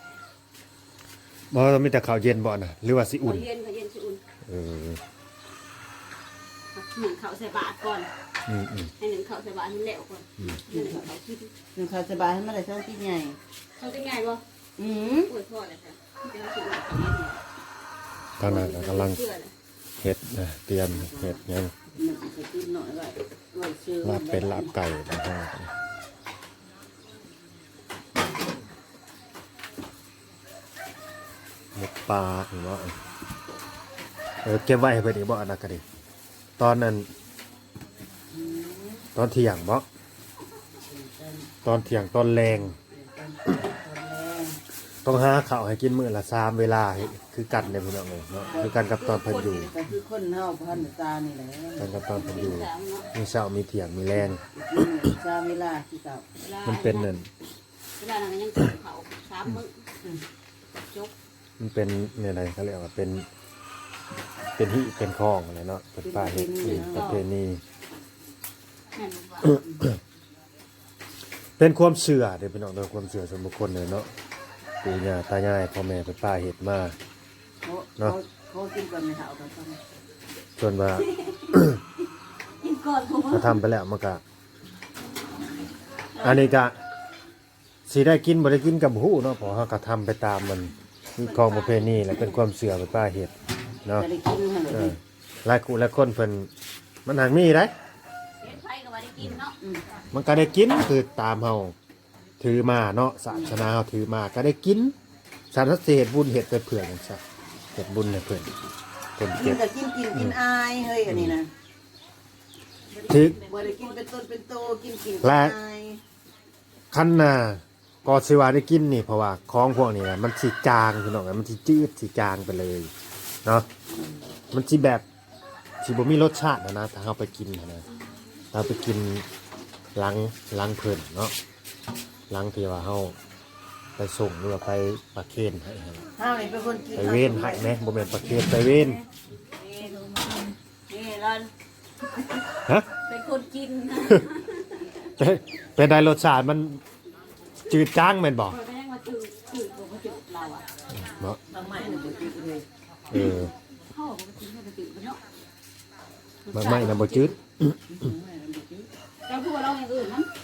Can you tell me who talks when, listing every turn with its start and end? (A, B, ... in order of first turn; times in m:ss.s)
0:01.5-0:03.5 A
0:03.2-0:04.2 B
0:04.4-0:05.0 A
0:06.7-0:08.1 B
0:08.5-0:08.9 A
0:09.0-0:11.5 B
0:10.7-0:11.1 C
0:11.7-0:13.4 C
0:13.8-0:14.4 B
0:14.8-0:15.3 C
0:15.2-0:17.4 B
0:18.4-0:19.2 A
0:18.4-0:19.5 B
0:20.0-0:21.7 A
0:20.9-0:21.4 C
0:21.9-0:24.7 C
0:24.0-0:25.7 A
0:31.8-0:32.9 A
0:34.4-0:35.8 A
0:36.6-0:37.1 A
0:38.3-0:39.1 C
0:39.2-0:39.8 A
0:40.9-0:41.5 C
0:41.6-0:42.8 A
0:42.9-0:44.6 C
0:45.0-0:49.7 A
0:48.4-0:48.8 C
0:48.5-0:49.6 B
0:49.5-0:52.4 C
0:51.8-0:54.4 A
0:52.2-0:53.1 B
0:54.6-0:56.2 C
0:56.4-0:57.1 B
0:56.6-0:57.3 A
0:58.0-0:59.8 B
1:01.6-1:03.2 A
1:04.6-1:07.6 A
1:06.0-1:07.1 C
1:06.6-1:07.2 B
1:08.9-1:09.6 B
1:11.6-1:14.1 A
1:14.8-1:17.0 A
1:17.6-1:19.8 C
1:20.6-1:21.8 A
1:21.0-1:21.6 B
1:22.6-1:23.6 B
1:23.3-1:24.2 A
1:26.1-1:26.5 B
1:26.2-1:26.8 A
1:27.9-1:33.3 A
1:31.2-1:32.4 B
1:34.0-1:35.0 C
1:34.7-1:36.5 A
1:37.0-1:37.7 A
1:38.4-1:39.6 B
1:40.1-1:41.7 A
1:42.4-1:44.9 A
1:43.3-1:43.6 C
1:45.5-1:47.2 A
1:47.7-1:48.5 A
1:49.2-1:49.6 A
1:49.4-1:51.5 C
1:51.1-1:51.4 A
1:52.9-1:54.0 B
1:53.1-1:53.4 A
1:53.4-1:56.0 C
1:55.2-1:55.6 A
1:56.9-2:02.9 A
2:04.5-2:05.0 A
2:05.8-2:07.8 A
2:08.5-2:09.2 A
2:09.9-2:11.3 A
2:12.3-2:13.2 A
2:14.0-2:16.1 A
2:16.2-2:17.8 C
2:16.9-2:19.0 A
2:19.6-2:20.6 B
2:20.9-2:21.5 C
2:23.0-2:25.1 B
2:25.2-2:26.8 A
2:27.7-2:28.6 A
2:28.5-2:30.7 B
2:30.9-2:31.4 A
2:31.5-2:32.6 C
2:33.1-2:33.5 A
2:33.9-2:35.2 B
2:36.4-2:37.3 B
2:36.5-2:37.8 A
2:37.9-2:38.9 C
2:39.2-2:40.3 B